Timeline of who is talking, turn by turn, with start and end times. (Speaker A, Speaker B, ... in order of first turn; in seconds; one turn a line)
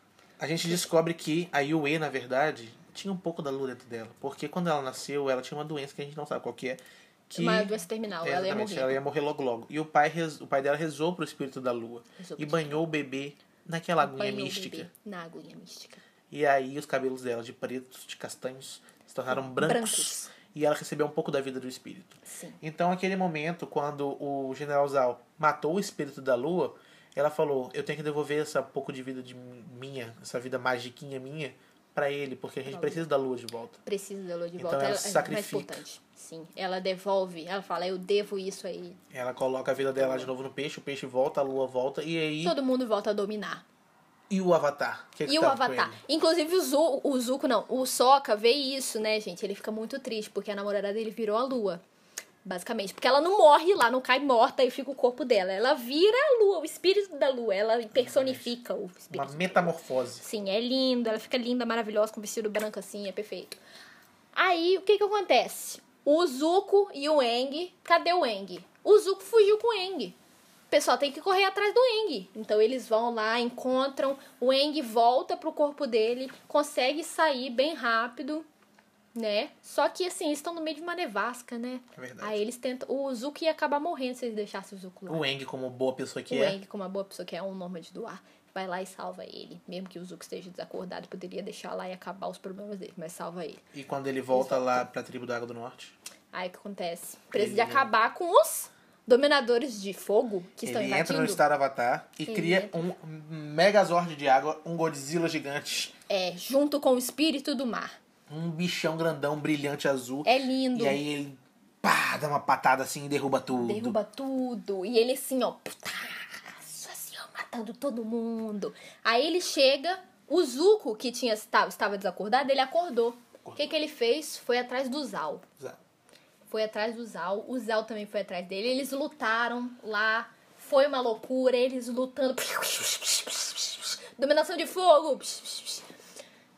Speaker A: 0.4-14.9
Speaker B: 7.3-9.0
Speaker B: 12.2-12.8
Speaker B: 14.0-16.0
Speaker A: 16.3-33.8
Speaker B: 19.3-20.3
Speaker B: 22.2-22.6
Speaker B: 32.7-33.0
Speaker B: 33.9-39.0
Speaker A: 34.6-35.8
Speaker A: 39.1-42.6
Speaker B: 40.0-40.3
Speaker B: 42.4-43.6
Speaker A: 44.3-46.0
Speaker B: 45.3-51.8
Speaker B: 52.5-63.6
Speaker A: 58.0-58.5
Speaker A: 59.1-60.2
Speaker B: 64.3-70.2
Speaker B: 70.7-78.5
Speaker B: 79.2-85.2
Speaker A: 82.0-82.4
Speaker A: 85.1-86.6
Speaker B: 86.3-93.6
Speaker A: 93.7-96.0
Speaker B: 94.3-94.8
Speaker B: 96.3-101.4
Speaker A: 97.3-97.9
Speaker A: 100.6-105.9
Speaker B: 102.2-103.0
Speaker B: 106.1-107.9
Speaker A: 108.3-114.0
Speaker B: 110.3-111.0
Speaker B: 113.5-125.5
Speaker A: 123.4-123.7
Speaker B: 126.5-135.9